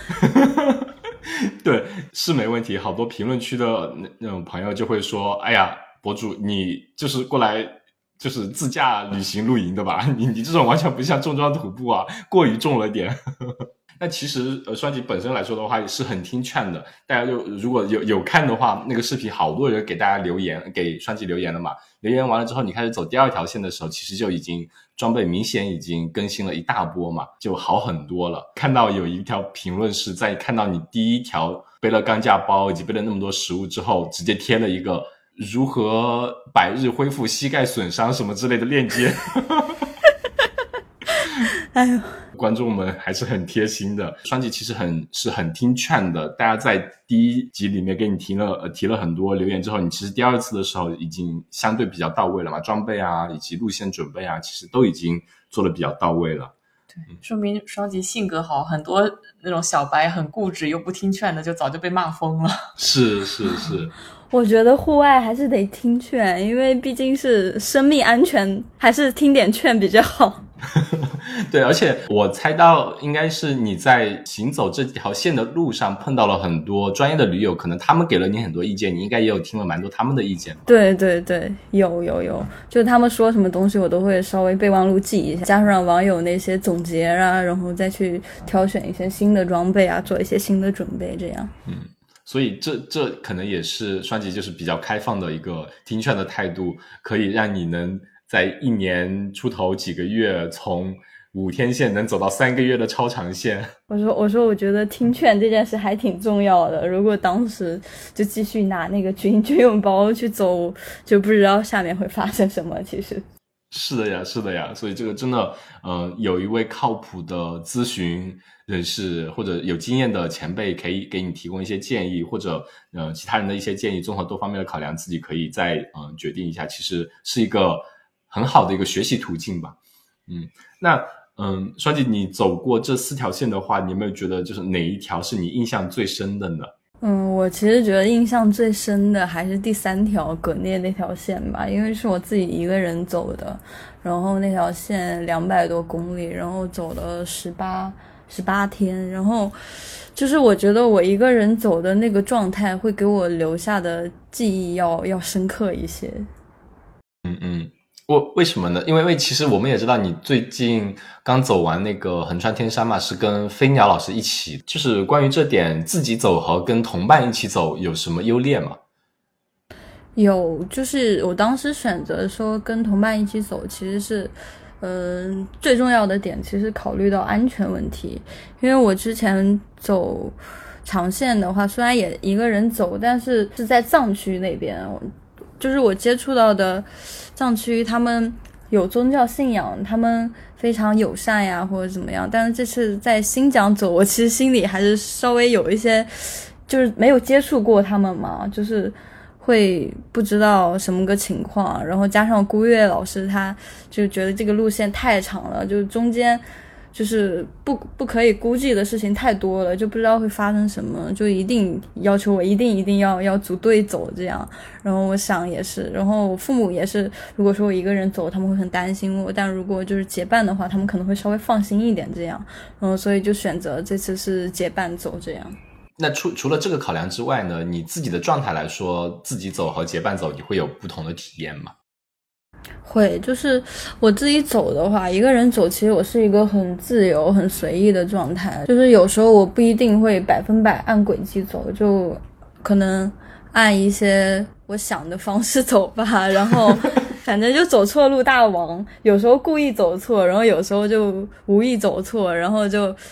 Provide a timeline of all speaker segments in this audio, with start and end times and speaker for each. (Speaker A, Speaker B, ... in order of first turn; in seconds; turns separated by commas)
Speaker A: 0.2-39.9, Speaker B: 41.8-42.2, Speaker A: 42.3-56.5, Speaker C: 57.0-62.7, Speaker A: 62.8-63.9, Speaker B: 64.3-70.4, Speaker A: 70.8-80.6, Speaker B: 80.7-91.5, Speaker A: 91.7-103.7, Speaker B: 103.9-113.2, Speaker A: 113.7-129.8, Speaker A: 130.3-136.7, Speaker B: 137.0-149.5, Speaker B: 150.2-156.3, Speaker A: 157.2-168.8, Speaker B: 170.2-206.4, Speaker B: 206.9-225.6, Speaker A: 226.0-231.7, Speaker B: 232.8-253.0